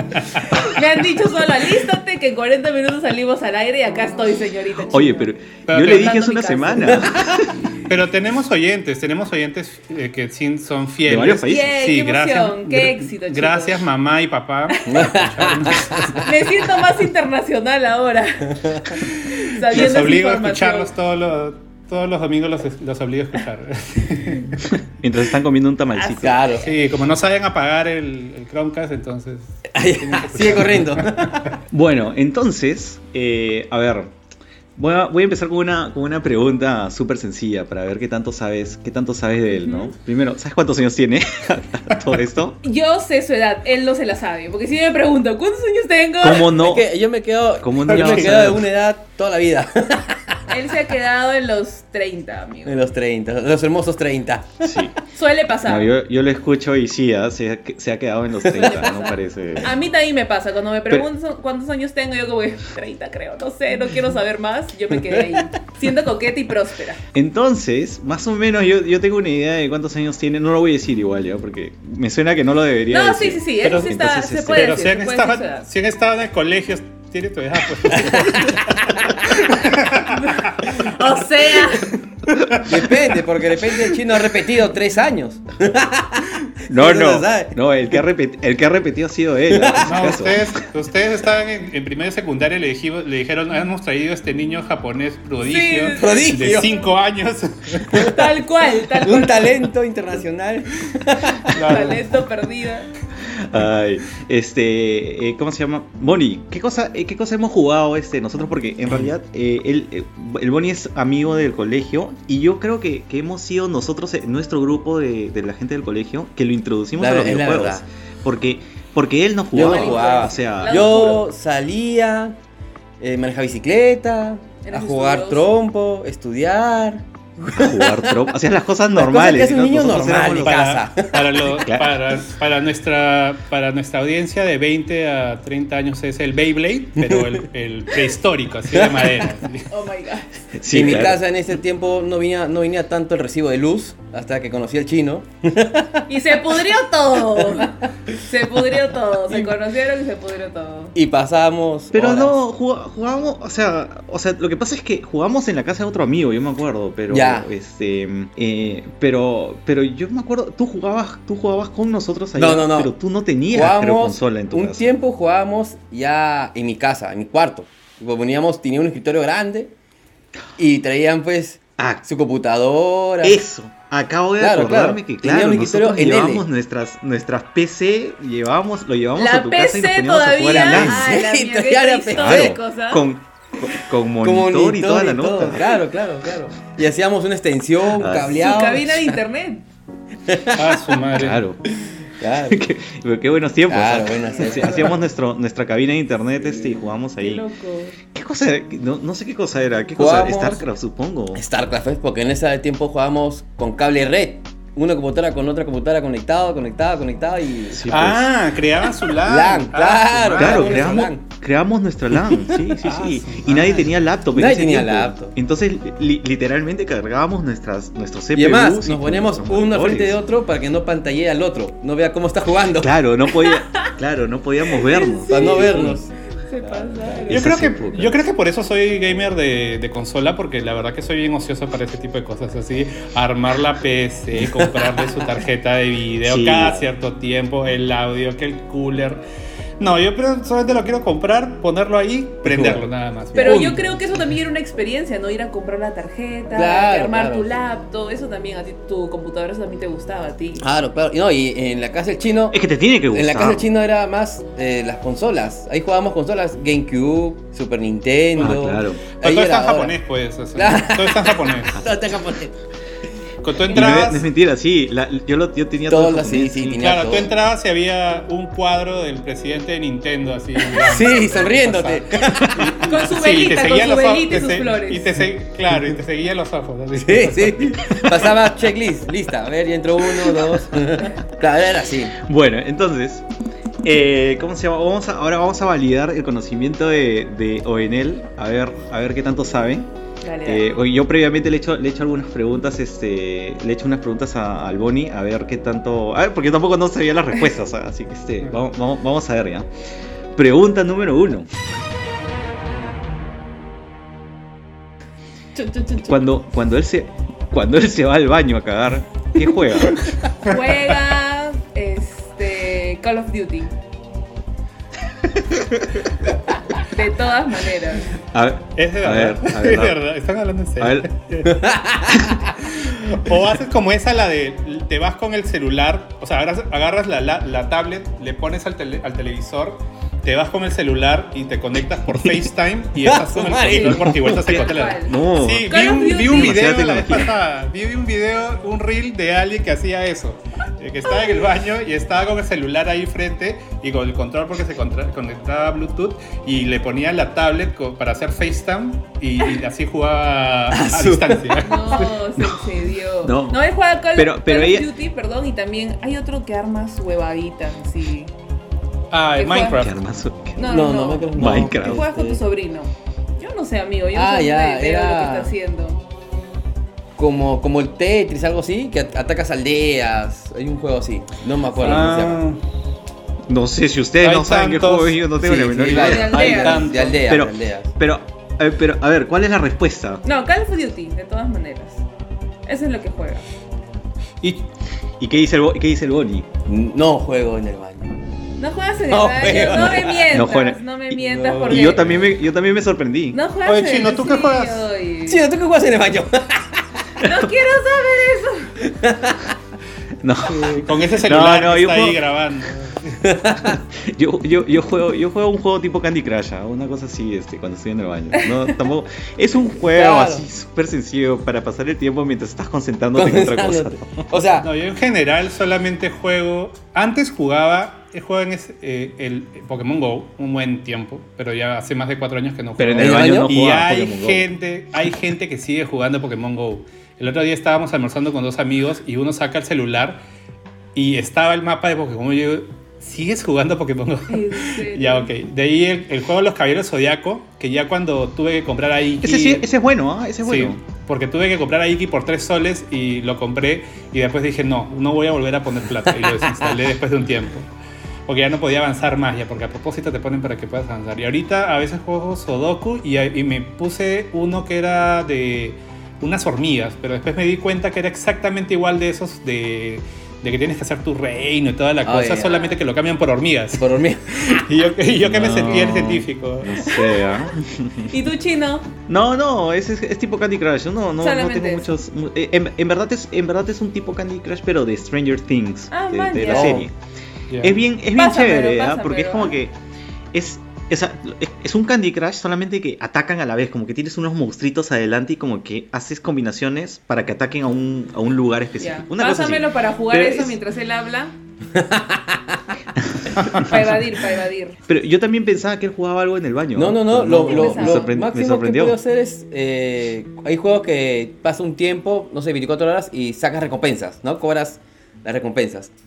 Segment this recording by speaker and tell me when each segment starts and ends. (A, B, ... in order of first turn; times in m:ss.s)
0:00.3-0:07.1 A
0:04.9-0:07.6 B
0:05.7-0:06.2 C
0:07.8-0:16.3 C
0:11.1-0:11.7 B
0:11.4-0:13.8 A
0:14.7-0:15.0 A
0:14.9-0:16.3 D
0:16.2-0:20.9 A
0:19.2-0:24.7 C
0:24.7-0:26.4 B
0:26.0-0:26.7 A
0:26.2-0:26.7 D
0:26.6-0:31.5 C
0:29.7-0:31.6 D
0:31.7-0:34.1 B
0:34.8-0:42.6 B
0:39.6-0:39.9 A
0:42.6-0:46.6 A
0:46.2-0:46.9 B
0:46.5-0:50.4 D
0:47.6-0:48.7 B
0:47.9-0:48.3 C
0:50.5-0:52.8 A
0:52.6-0:54.7 D
0:54.6-0:55.0 B
0:55.1-0:55.9 A
0:55.6-0:59.8 B
0:58.5-1:07.0 A
1:04.9-1:05.5 D
1:07.1-1:14.6 B
1:12.9-1:15.7 A
1:13.6-1:20.6 C
1:17.9-1:18.4 D
1:20.0-1:21.9 A
1:22.6-1:27.5 D
1:26.7-1:30.5 B
1:29.5-1:29.9 D
1:29.8-1:38.1 C
1:35.4-1:36.8 A
1:35.9-1:36.7 D
1:37.9-1:38.3 D
1:37.9-1:39.6 A
1:38.9-1:42.0 D
1:41.5-1:42.1 C
1:41.6-1:42.9 A
1:43.3-2:01.2 B
1:57.0-1:57.8 D
1:59.5-2:02.4 D
1:59.5-2:01.2 A
2:03.0-2:08.2 D
2:04.6-2:05.5 A
2:07.5-2:10.8 B
2:08.9-2:11.4 D
2:09.8-2:19.7 C
2:11.6-2:12.0 B
2:17.0-2:17.4 D
2:18.8-2:19.3 D
2:19.7-2:20.5 A
2:20.6-2:21.2 B
2:20.7-2:26.8 D
2:26.1-2:31.0 A
2:27.4-2:27.7 D
2:31.0-2:32.4 D
2:31.9-2:45.0 B
2:37.1-2:37.5 D
2:42.4-2:42.9 D
2:43.5-2:49.7 D
2:50.6-2:53.4 D
2:51.8-2:52.0 B
2:53.2-3:01.0 B
2:54.4-2:56.4 D
2:59.2-3:03.1 A
3:00.5-3:02.5 D
3:02.1-3:05.8 B
3:04.2-3:09.2 D
3:07.9-3:08.4 B
3:08.3-3:09.7 A
3:10.3-3:10.8 D
3:10.5-3:11.4 C
3:11.2-3:11.6 B
3:12.1-3:12.6 D
3:12.5-3:17.4 B
3:13.7-3:15.0 D
3:16.4-3:16.8 D
3:17.2-3:18.0 A
3:18.1-3:21.4 B
3:20.0-3:20.6 D
3:21.4-3:28.2 D
3:27.7-3:28.3 B
3:27.9-3:31.1 C
3:29.1-3:31.2 D
3:30.4-3:40.2 B
3:32.2-3:32.6 D
3:32.8-3:34.1 C
3:34.3-3:35.3 D
3:38.4-3:42.9 D
3:42.8-3:46.0 B
3:43.3-3:43.9 A
3:44.8-3:47.4 A
3:45.3-3:46.1 D
3:47.3-3:59.2 C
3:47.3-3:48.2 B
3:54.4-3:55.2 D
3:56.2-3:56.9 B
3:59.8-4:04.0 C
4:02.4-4:03.8 D
4:03.4-4:10.7 A
4:06.5-4:07.5 D
4:10.6-4:19.9 D
4:12.5-4:13.7 B
4:18.4-4:19.0 B
4:19.1-4:21.8 C
4:20.6-4:22.6 D
4:23.4-4:24.3 C
4:23.6-4:24.1 A
4:23.7-4:26.9 B
4:25.9-4:27.3 D
4:26.8-4:38.1 C
4:30.7-4:32.6 D
4:32.4-4:32.7 B
4:32.8-4:35.1 A
4:37.0-4:42.2 D
4:42.2-4:43.2 B
4:43.8-4:49.9 B
4:50.2-4:50.7 A
4:50.4-4:59.7 B
5:00.4-5:01.5 B
5:05.6-5:06.1 A
5:06.0-5:10.1 B
5:10.4-5:13.7 A
5:15.4-5:16.0 B
5:16.8-5:18.1 A
5:18.3-5:20.0 B
5:18.8-5:21.7 C
5:20.8-5:21.1 B
5:21.5-5:22.3 D
5:22.6-5:52.2 C
5:33.1-5:34.5 D
5:33.7-5:35.2 A
5:34.3-5:37.3 B
5:35.7-5:36.6 A
5:50.7-5:52.1 D
5:51.6-5:58.3 A
5:53.2-5:54.9 B
5:59.1-6:00.0 C
5:59.4-5:59.8 A
5:59.7-6:00.8 B
6:00.6-6:06.0 A
6:00.6-6:02.4 D
6:01.3-6:02.1 B
6:04.1-6:05.5 D
6:07.2-6:12.4 D
6:11.8-6:12.6 C
6:13.5-6:20.2 B
6:14.2-6:17.3 C
6:15.4-6:17.9 D
6:16.0-6:16.9 A
6:20.2-6:22.0 A
6:22.7-6:23.4 A
6:24.4-6:24.7 C
6:25.2-6:26.5 B
6:26.7-6:28.1 D
6:28.6-6:32.1 A
6:29.1-6:30.4 D
6:29.8-6:33.4 B
6:31.3-6:31.8 D
6:31.7-6:32.2 C
6:33.3-6:35.4 A
6:33.7-6:34.9 C
6:35.3-6:36.8 D
6:37.2-6:38.7 A
6:38.8-6:39.5 D
6:40.2-6:42.2 B
6:40.4-6:43.2 C
6:43.2-6:43.8 D
6:43.9-6:54.3 B
6:49.9-6:50.4 D
6:53.2-6:54.7 D
6:54.6-7:10.2 C
7:02.8-7:04.5 B
7:03.0-7:03.5 D
7:11.0-7:19.7 C
7:14.3-7:15.3 A
7:19.2-7:20.8 B
7:20.4-7:27.7 C
7:26.4-7:26.7 D
7:28.3-7:47.0 C
7:42.0-7:42.6 D
7:42.4-7:42.8 A
7:43.8-7:44.6 D
7:45.2-7:48.1 B
7:46.9-7:47.3 A
7:48.1-7:48.9 A
7:49.1-7:56.9 B
7:51.2-7:51.9 A
7:55.9-7:56.8 A
7:56.4-7:56.8 D
7:57.5-7:57.8 C
7:57.6-7:59.8 B
7:58.2-7:59.6 A
8:00.3-8:10.6 B
8:08.8-8:11.4 A
8:11.7-8:12.4 D
8:13.2-8:13.7 B
8:13.5-8:14.8 A
8:14.9-8:19.0 B
8:16.8-8:25.9 D
8:17.4-8:18.1 A